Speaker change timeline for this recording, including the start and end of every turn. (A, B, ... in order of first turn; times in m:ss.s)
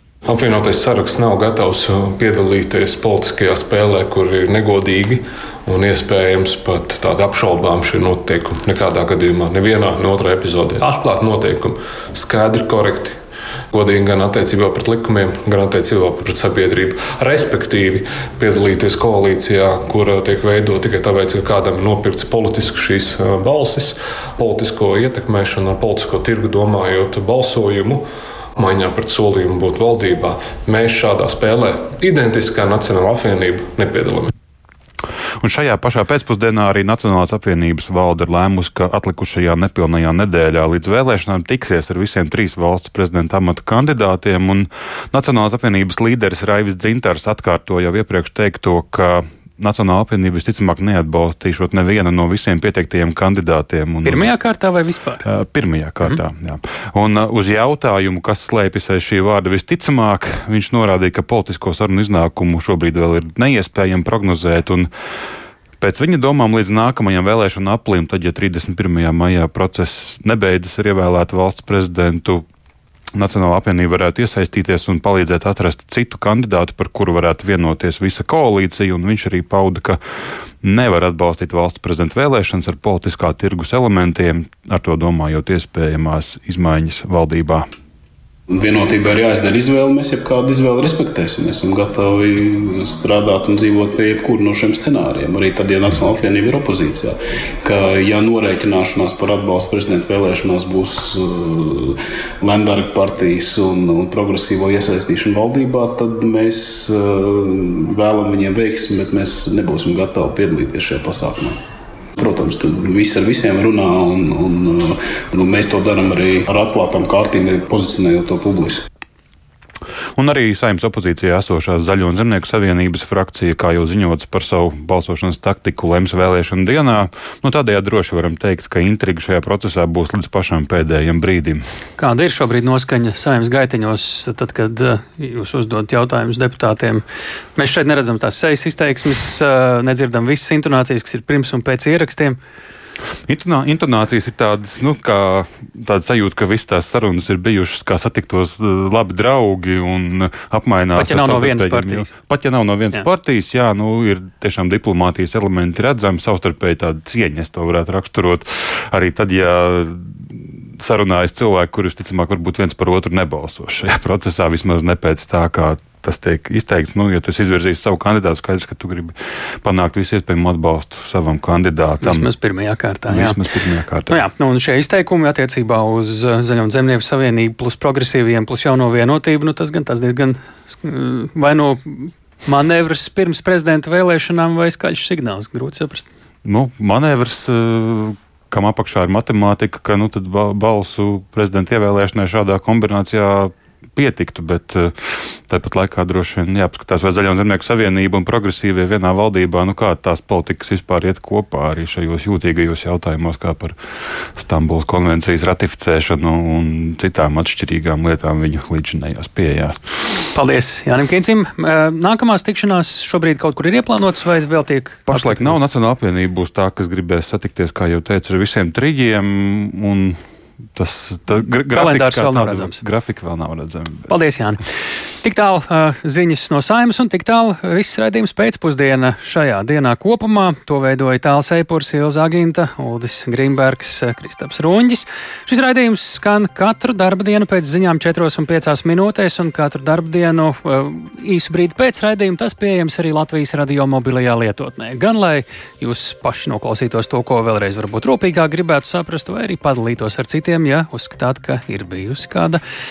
0:00.2-0:13.2 A
0:13.7-0:28.0 A
0:28.6-0:34.3 A
0:35.4-0:54.4 B
0:54.0-0:55.3 C
0:55.2-1:04.9 B
1:05.8-1:12.4 B
1:13.1-1:20.0 B
1:20.6-1:27.7 B
1:28.5-1:51.6 D
1:52.2-1:58.9 D
2:00.2-2:11.6 B
2:12.0-2:17.0 C
2:17.6-2:22.4 C
2:23.3-2:52.3 B
2:31.0-2:32.1 C
2:52.0-2:53.4 C
2:53.1-2:54.2 B
2:54.1-3:06.1 C
3:06.4-3:23.8 B
3:24.4-3:29.9 B
3:30.3-3:35.6 C
3:35.1-3:40.2 B
3:40.7-3:44.1 B
3:41.7-3:42.8 C
3:44.1-3:44.6 C
3:45.2-4:12.6 C